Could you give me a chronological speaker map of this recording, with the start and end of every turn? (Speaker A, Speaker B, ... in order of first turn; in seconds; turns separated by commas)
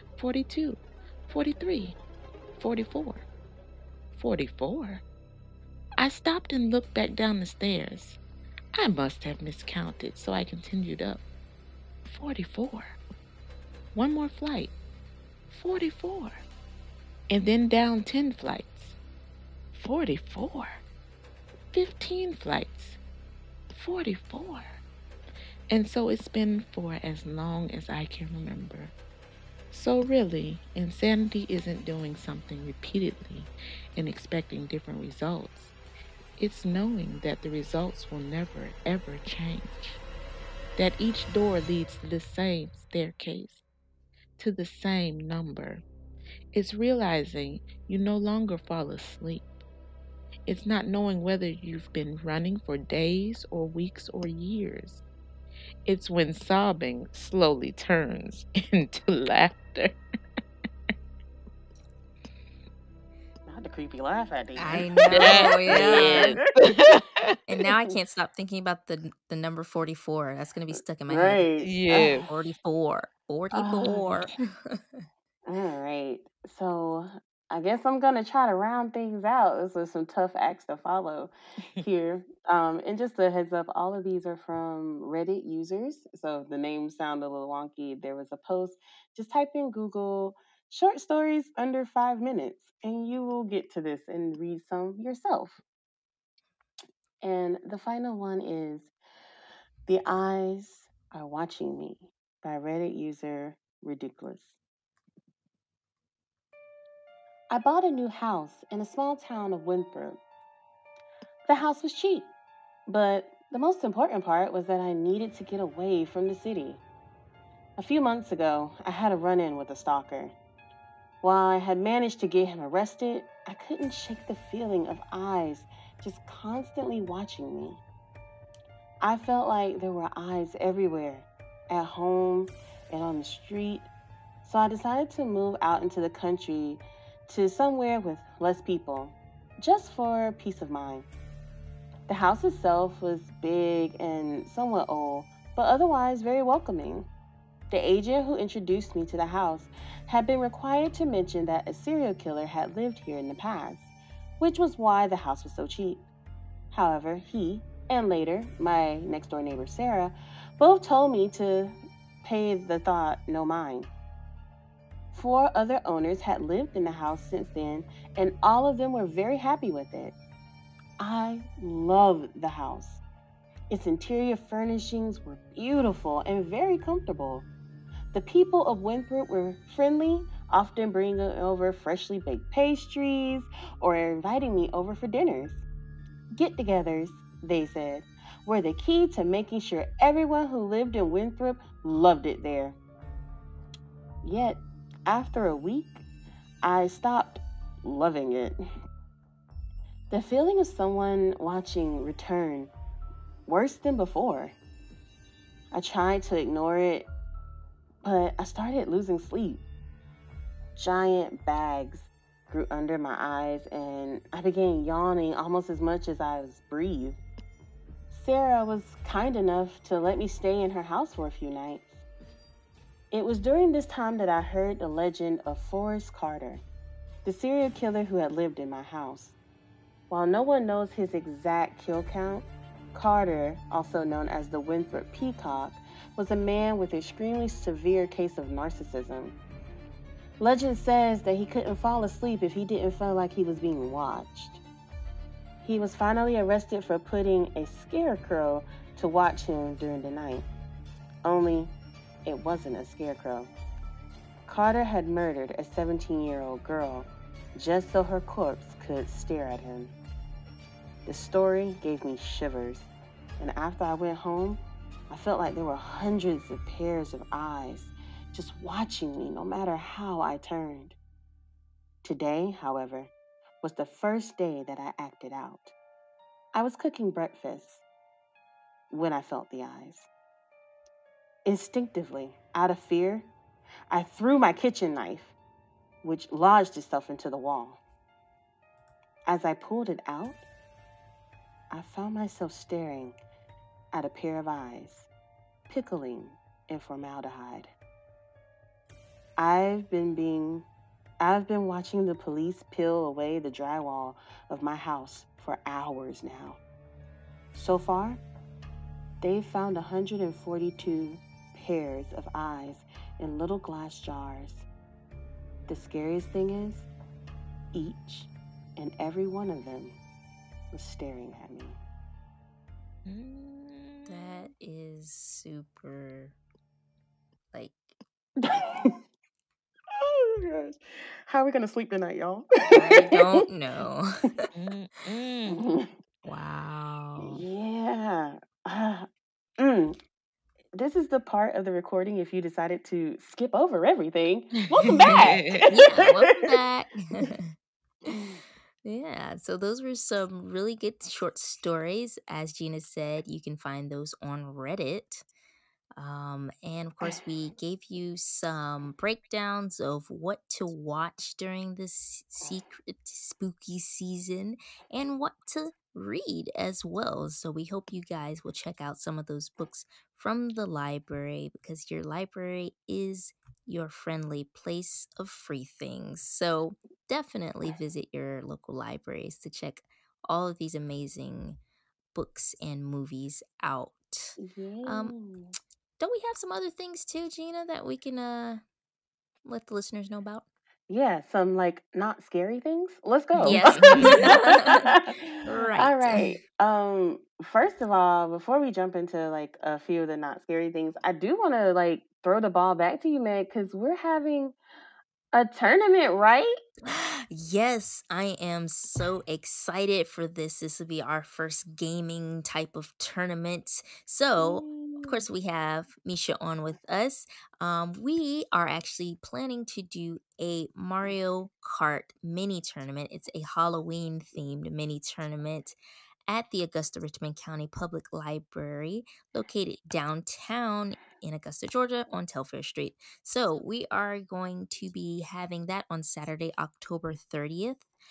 Speaker A: 0.2-2.0, Speaker A: 2.6-3.2, Speaker A: 4.2-5.0, Speaker A: 6.0-8.2, Speaker A: 8.8-11.2, Speaker A: 12.1-13.0, Speaker A: 13.9-14.7, Speaker A: 15.5-16.4, Speaker A: 17.3-19.0, Speaker A: 19.7-20.8, Speaker A: 21.7-23.0, Speaker A: 23.7-24.8, Speaker A: 25.7-28.9, Speaker A: 29.7-35.8, Speaker A: 36.4-40.0, Speaker A: 40.8-43.6, Speaker A: 44.4-45.8, Speaker A: 46.5-49.5, Speaker A: 50.5-55.0, Speaker A: 55.9-60.0, Speaker B: 63.5-66.4, Speaker C: 64.6-66.4, Speaker A: 65.1-67.4, Speaker C: 67.5-75.0, Speaker B: 71.1-72.3, Speaker A: 71.6-72.3, Speaker B: 73.5-74.0, Speaker B: 75.5-95.6, Speaker B: 97.2-98.9, Speaker B: 99.9-104.6, Speaker B: 107.5-110.2, Speaker B: 111.5-112.3, Speaker B: 112.9-116.8, Speaker B: 117.8-120.3, Speaker B: 121.2-127.8, Speaker B: 129.0-133.9, Speaker B: 134.4-141.1, Speaker B: 142.1-147.1, Speaker B: 147.7-156.1, Speaker B: 156.7-163.9, Speaker B: 165.1-170.2, Speaker B: 171.0-173.0, Speaker B: 173.7-177.5, Speaker B: 178.1-185.6, Speaker B: 186.3-192.8, Speaker B: 194.2-196.0, Speaker B: 196.6-198.6, Speaker B: 200.1-202.7, Speaker B: 203.5-204.6, Speaker B: 205.7-207.1, Speaker B: 208.0-209.6, Speaker B: 210.8-217.2, Speaker B: 218.1-222.0, Speaker B: 223.1-226.6, Speaker B: 227.2-229.4, Speaker B: 230.1-239.3, Speaker B: 240.4-244.6, Speaker B: 245.6-250.5, Speaker B: 251.2-251.7, Speaker B: 252.2-253.5, Speaker B: 254.5-259.9, Speaker B: 261.1-271.0, Speaker B: 272.0-273.1, Speaker B: 273.6-275.7, Speaker B: 276.5-277.8, Speaker B: 278.9-280.1, Speaker B: 281.5-283.3, Speaker B: 283.9-285.4, Speaker B: 286.0-287.8, Speaker B: 289.3-290.4, Speaker B: 291.7-293.2, Speaker B: 293.9-295.1, Speaker B: 295.7-297.7, Speaker B: 299.4-300.7, Speaker B: 301.2-306.6, Speaker B: 307.5-308.2, Speaker B: 309.2-314.7, Speaker B: 315.7-316.9, Speaker B: 317.7-320.0, Speaker B: 320.7-321.8, Speaker A: 323.1-324.5, Speaker C: 324.1-326.4, Speaker C: 327.5-327.9, Speaker B: 328.4-329.0, Speaker B: 329.9-333.5, Speaker C: 332.7-334.5, Speaker A: 334.5-335.6, Speaker B: 335.5-335.9, Speaker C: 336.2-337.4, Speaker B: 337.2-339.1, Speaker B: 339.6-340.0, Speaker B: 340.7-346.5, Speaker A: 344.7-345.7, Speaker C: 345.7-347.6, Speaker B: 348.1-348.4, Speaker C: 348.8-355.2, Speaker C: 356.0-381.6, Speaker C: 382.1-385.1, Speaker B: 384.4-385.5, Speaker C: 386.0-388.6, Speaker C: 389.4-390.5, Speaker B: 390.9-404.6, Speaker C: 393.4-396.4, Speaker A: 393.4-394.4, Speaker B: 405.3-406.5, Speaker C: 406.9-425.8, Speaker B: 414.4-415.2, Speaker C: 426.3-437.9